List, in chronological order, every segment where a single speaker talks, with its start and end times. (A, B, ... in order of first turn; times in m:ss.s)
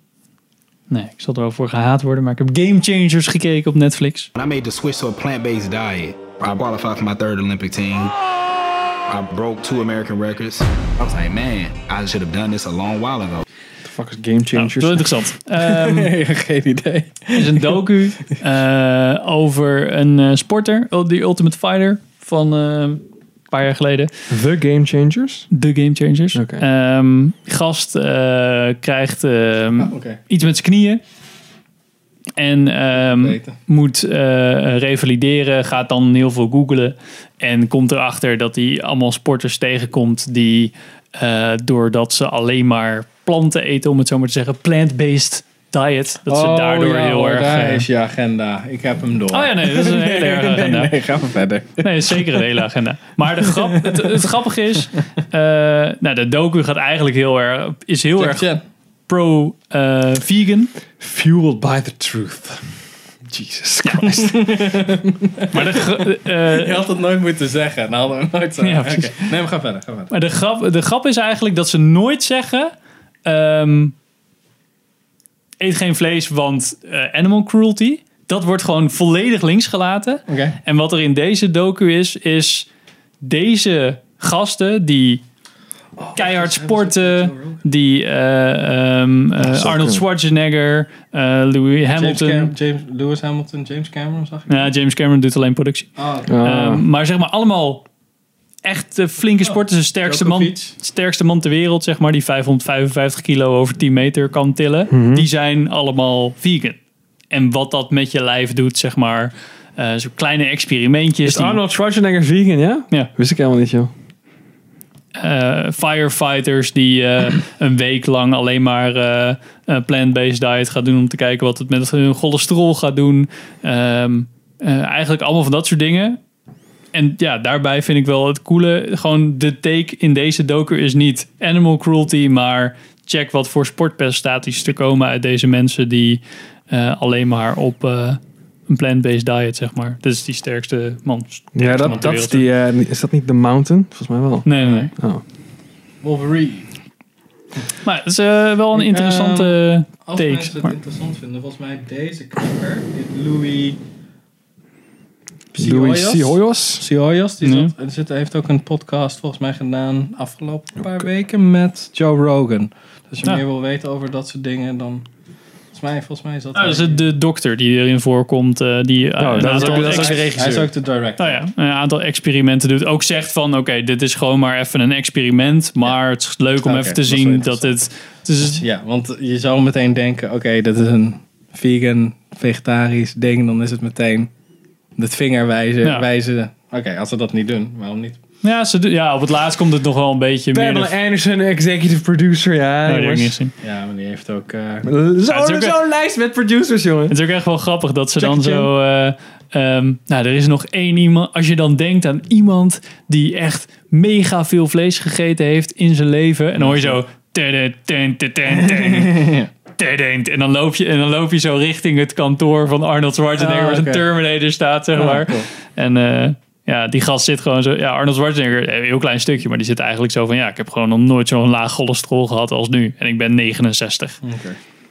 0:00.9-0:04.3 A
0:04.4-0:08.2 B
0:09.1-0:13.4 B
0:13.8-0:15.1 C
0:14.6-0:16.1 A
0:15.6-0:17.8 D
0:17.4-0:24.1 A
0:24.3-0:25.5 C
0:25.5-0:31.0 A
0:26.4-0:26.6 C
0:29.8-0:30.2 D
0:32.4-0:47.8 A
0:32.9-0:33.6 D
0:46.3-0:52.5 D
0:49.3-0:50.9 A
0:51.8-0:58.5 A
0:53.4-0:54.1 D
0:58.2-0:58.6 D
0:59.1-1:00.7 A
1:01.0-1:02.6 C
1:03.3-1:05.2 C
1:04.1-1:05.6 D
1:05.5-1:06.8 A
1:06.4-1:10.1 D
1:08.6-1:09.3 A
1:10.1-1:12.7 A
1:13.3-1:13.9 A
1:15.6-1:22.7 A
1:20.3-1:20.6 D
1:23.2-1:25.2 A
1:26.0-1:27.6 D
1:26.1-1:32.5 A
1:29.4-1:30.0 C
1:31.9-1:34.7 D
1:34.5-1:35.9 A
1:36.0-1:36.4 D
1:36.3-1:36.8 C
1:36.4-1:37.8 A
1:38.6-1:46.8 A
1:39.4-1:40.8 D
1:44.9-1:45.3 C
1:47.3-1:51.6 A
1:51.2-1:53.9 C
1:55.1-2:06.2 A
2:06.9-2:22.5 A
2:21.6-2:25.2 C
2:21.8-2:22.2 D
2:24.4-2:24.9 A
2:26.0-2:26.7 D
2:27.8-2:30.7 A
2:28.7-2:33.8 D
2:35.5-2:45.1 D
2:35.6-2:36.8 C
2:37.4-2:37.7 A
2:45.7-2:47.0 D
2:46.6-2:50.2 A
2:49.2-2:50.7 C
2:49.4-2:51.4 D
2:51.2-2:58.6 A
2:56.6-2:57.7 D
2:58.4-3:04.3 D
3:05.0-3:08.2 D
3:08.4-3:10.9 A
3:10.5-3:13.4 C
3:12.9-3:13.5 A
3:13.6-3:14.9 D
3:14.8-3:17.2 C
3:15.3-3:15.7 A
3:17.1-3:44.2 A
3:18.2-3:18.7 C
3:26.6-3:27.0 D
3:28.5-3:29.5 D
3:33.4-3:34.1 D
3:35.0-3:35.5 D
3:44.2-3:44.6 D